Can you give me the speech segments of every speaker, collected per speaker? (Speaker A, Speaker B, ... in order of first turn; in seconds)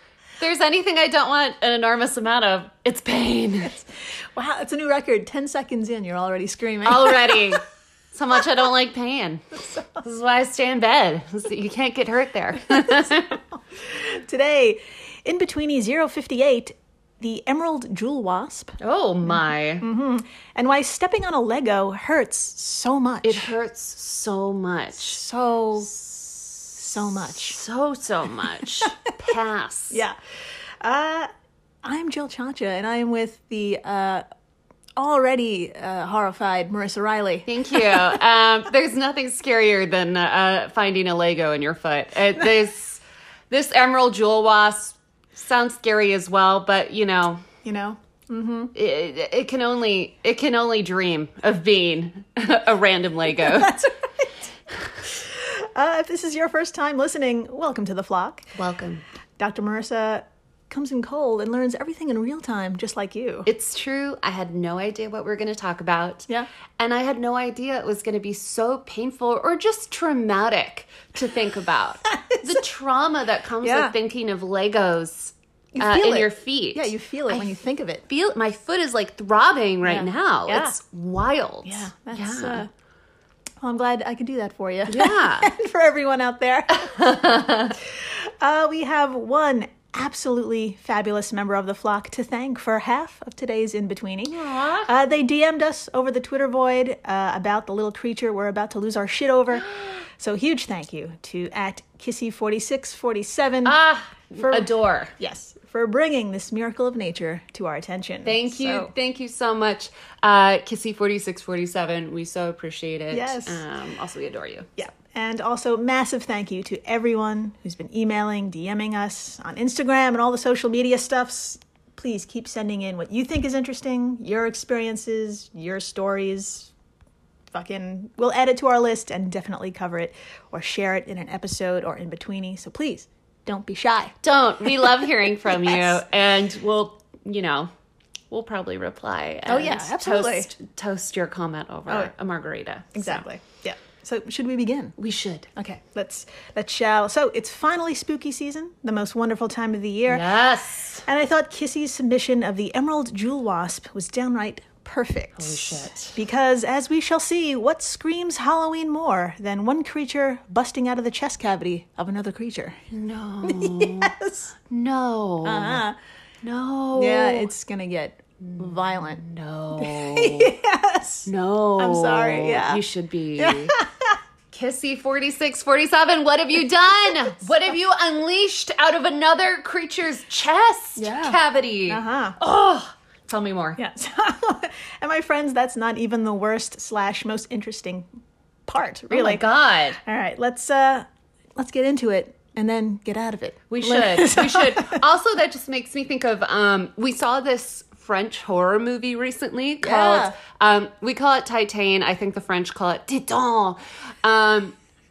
Speaker A: 0.4-3.8, 6.8-7.6, 8.1-13.4, 18.8-19.8, 23.2-25.2, 25.9-30.0, 37.5-47.4, 48.7-53.7, 58.5-59.0, 63.5-77.5, 78.1-82.6, 84.9-85.5, 86.8-87.7, 94.3-94.9, 99.5-100.0, 103.6-105.1, 108.2-114.7, 134.2-137.7, 138.3-143.2, 145.0-145.5, 150.1-151.1, 155.3-156.2, 162.9-164.1, 164.7-165.8, 166.4-167.5, 168.4-170.6, 171.2-173.7, 174.5-183.8, 189.1-190.0, 193.7-204.8
Speaker B: 4.3-7.6, 9.6-10.0, 13.8-18.8, 19.8-23.6, 24.9-25.9, 26.8-27.6, 29.9-30.1, 30.8-31.3, 31.8-34.2, 35.0-38.1, 47.6-48.7, 53.4-54.5, 55.2-58.5, 59.4-63.5, 72.1-72.6, 73.6-73.9, 75.7-78.0, 79.8-80.7, 81.6-82.7, 83.6-87.1, 87.8-103.8, 104.3-108.9, 113.1-113.6, 114.8-126.7, 127.5-136.0, 139.5-140.5, 141.9-142.1, 142.9-144.9, 145.6-150.2, 151.1-162.8, 163.4-164.5, 165.4-166.0, 166.9-169.2, 169.8-172.8, 173.4-174.1, 180.9-182.4, 183.8-188.1, 188.7-189.4, 190.0-195.0, 199.8-200.4